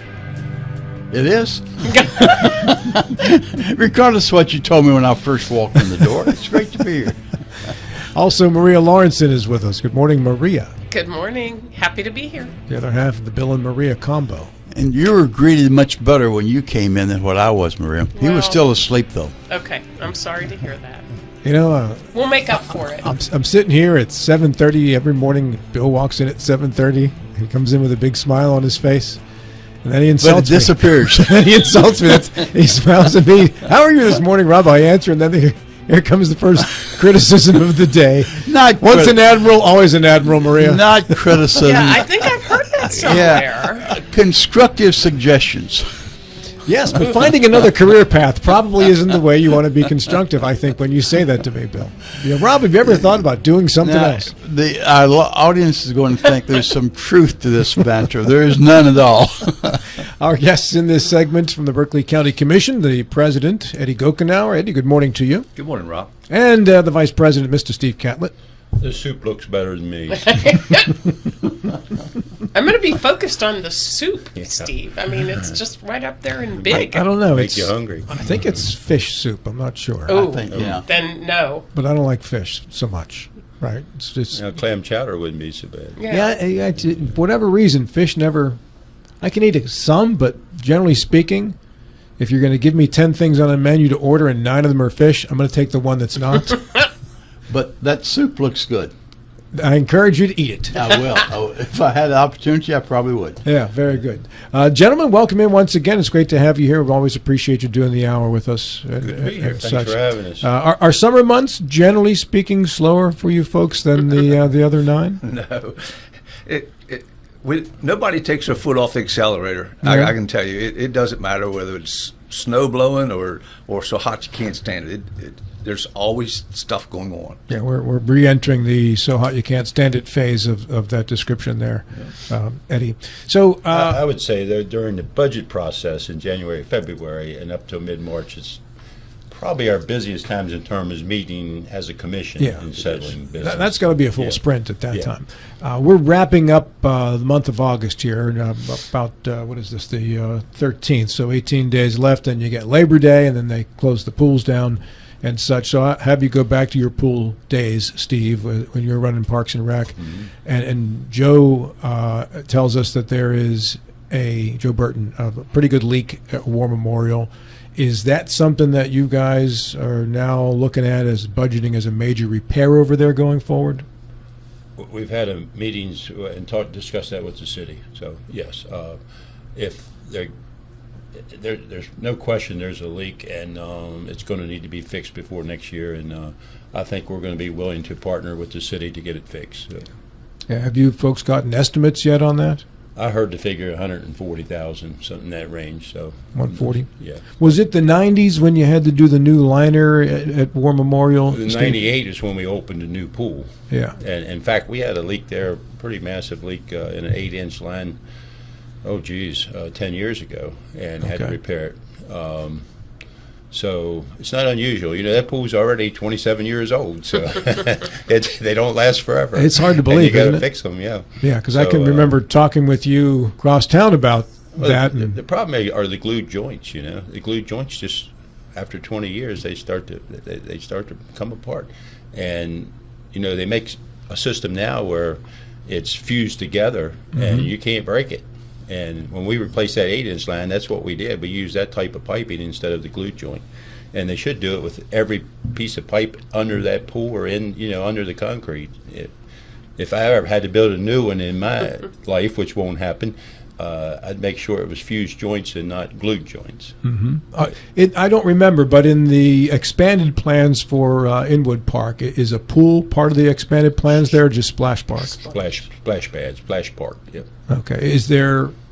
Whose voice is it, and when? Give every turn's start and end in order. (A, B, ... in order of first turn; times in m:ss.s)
0:01.1-0:07.2 A
0:08.1-0:10.7 B
0:10.9-0:12.5 C
0:12.7-0:14.5 B
0:14.7-0:19.3 A
0:18.2-0:18.7 C
0:19.5-0:21.0 C
0:21.4-0:22.1 B
0:22.1-0:23.1 C
0:23.0-0:29.2 B
0:29.8-0:41.4 B
0:30.2-0:31.4 A
0:38.4-0:39.1 A
0:40.6-0:42.2 A
0:41.5-0:43.9 C
0:43.0-0:45.9 A
0:46.6-0:54.3 B
0:53.8-0:59.8 A
1:00.0-1:05.5 B
1:05.6-1:06.1 D
1:06.3-1:08.3 B
1:08.8-1:10.3 D
1:10.1-1:11.0 C
1:12.5-1:17.0 C
1:14.4-1:14.7 D
1:16.6-1:18.1 D
1:16.7-1:20.2 B
1:20.1-1:21.6 C
1:20.2-1:20.8 A
1:20.5-1:20.8 D
1:21.7-1:24.4 B
1:24.3-1:26.0 D
1:26.0-1:26.3 C
1:26.1-1:28.6 B
1:29.2-1:31.5 B
1:32.2-1:36.8 B
1:37.5-1:38.9 A
1:39.5-1:40.8 B
1:40.7-1:43.4 A
1:43.4-1:55.2 B
1:49.0-1:50.5 D
1:55.2-1:55.7 E
1:56.5-2:07.3 E
1:57.4-1:58.0 D
1:59.8-2:00.1 B
2:07.5-2:14.0 B
2:13.7-2:18.6 D
2:19.3-2:25.1 D
2:22.4-2:53.8 B
2:54.8-2:59.0 D
2:59.5-3:00.3 D
3:01.1-3:09.9 D
3:10.5-3:12.6 B
3:13.0-3:17.3 D
3:16.3-3:21.8 B
3:21.3-3:28.0 D
3:23.7-3:24.0 B
3:28.8-3:32.6 D
3:31.0-3:31.3 B
3:33.5-3:42.1 D
3:39.3-3:40.5 B
3:41.2-3:45.1 B
3:44.5-4:09.1 D
3:57.2-3:57.5 B
4:09.8-4:16.7 D
4:16.8-4:25.3 B
4:25.2-4:27.3 D
4:27.5-4:28.5 B